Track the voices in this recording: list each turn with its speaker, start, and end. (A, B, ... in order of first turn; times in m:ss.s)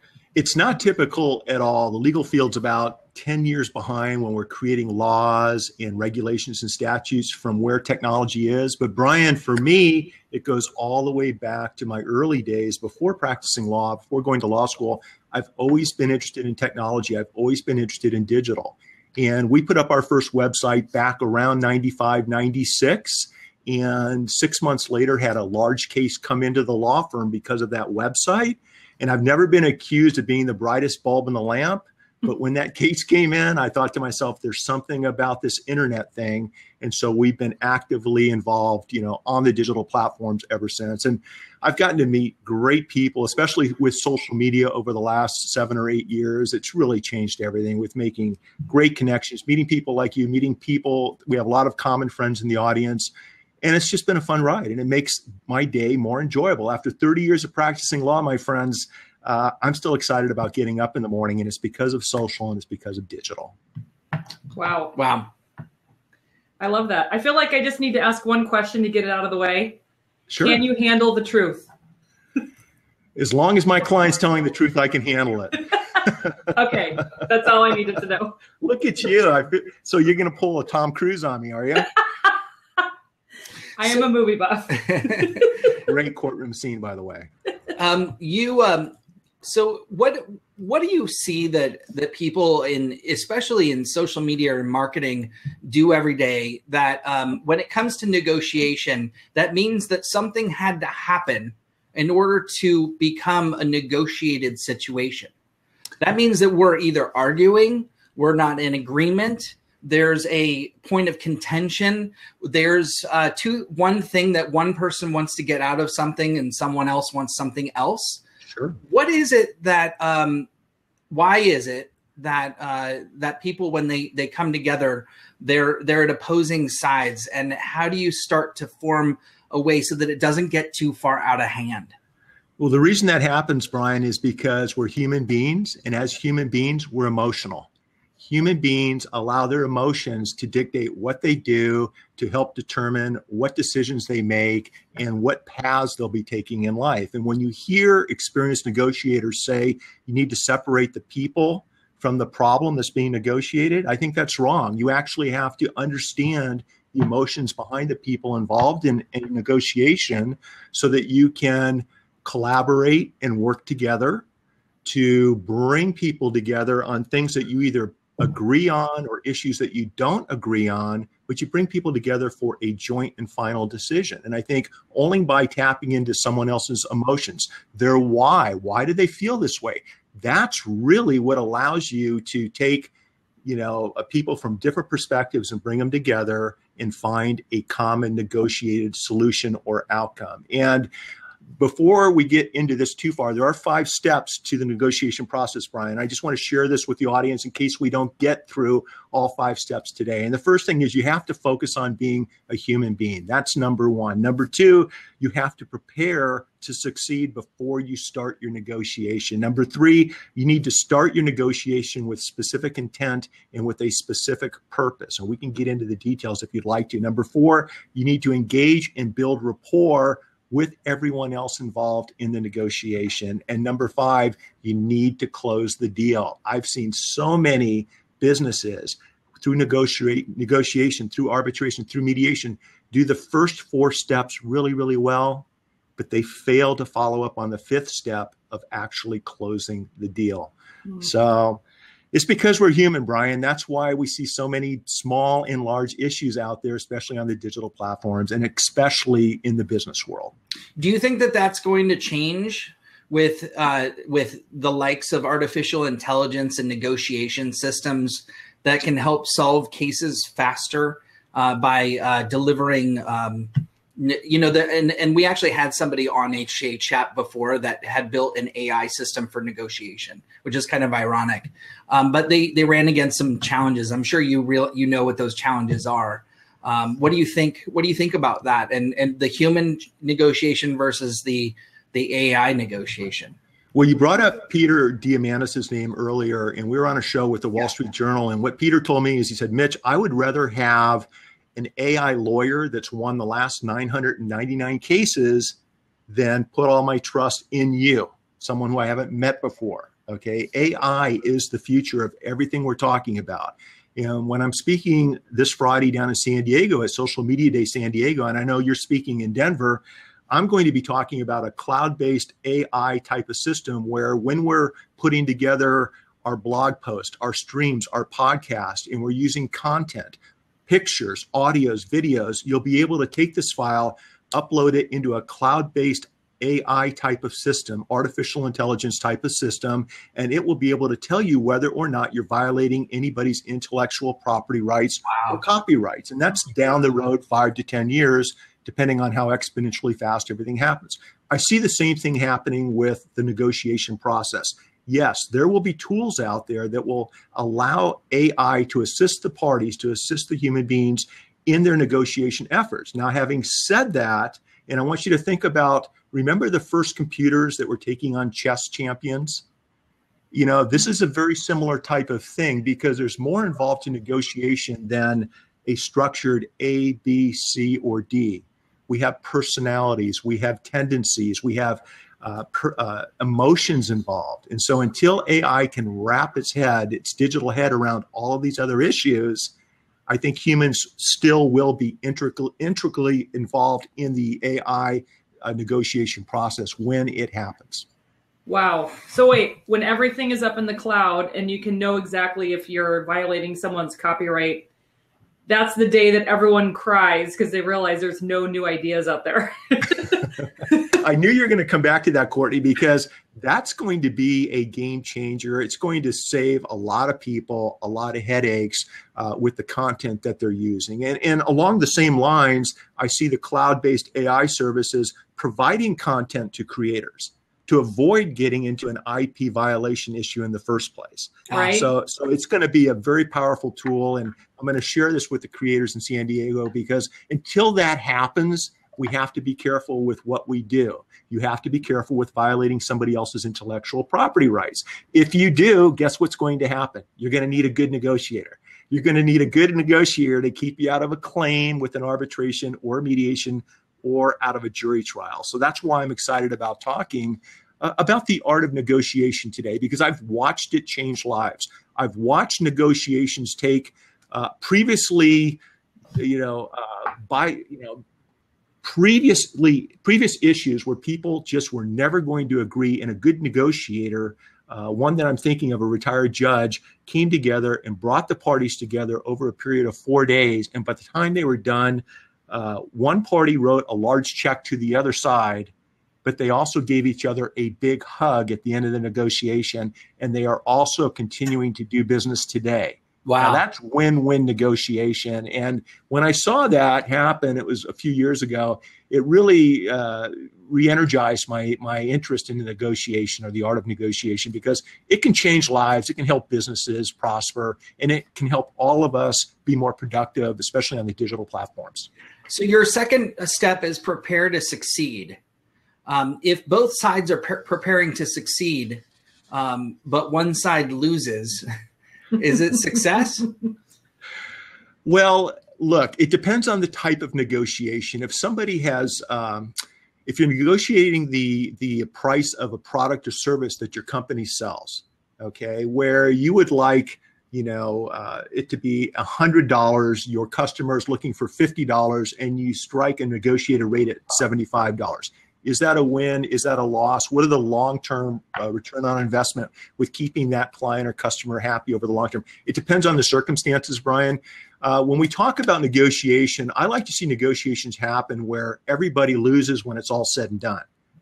0:00.3-0:53.1 A
0:53.6-1:03.6 A
1:04.5-1:05.0 B
1:04.9-1:05.3 C
1:06.6-1:09.8 B
1:10.3-1:10.6 A
1:10.4-1:11.7 B
1:13.2-1:16.5 A
1:16.5-1:18.4 B
1:18.6-1:21.9 A
1:23.8-1:25.5 B
1:24.9-1:25.3 C
1:25.8-1:27.3 A
1:27.7-1:45.3 C
1:46.0-1:58.2 C
1:58.5-1:58.8 A
1:58.9-2:00.5 C
2:01.1-2:11.9 C
2:12.6-2:44.2 A
2:44.8-3:02.9 A
3:03.4-3:10.9 A
3:11.6-3:55.4 A
3:56.0-4:01.6 A
4:02.1-4:10.3 A
4:10.8-4:43.4 C
4:43.7-4:55.6 A
4:56.1-5:59.4 A
6:00.3-6:19.5 A
6:20.1-6:27.8 A
6:28.4-6:34.7 B
6:35.5-6:40.3 B
6:40.7-7:35.6 A
7:01.5-7:01.9 B
7:36.1-7:38.0 A
7:38.8-7:55.7 A
7:56.2-8:22.1 A
8:03.2-8:03.6 C
8:22.5-8:25.4 C
8:26.0-8:31.6 C
8:32.3-8:33.5 C
8:35.0-8:39.7 A
8:40.2-9:10.8 A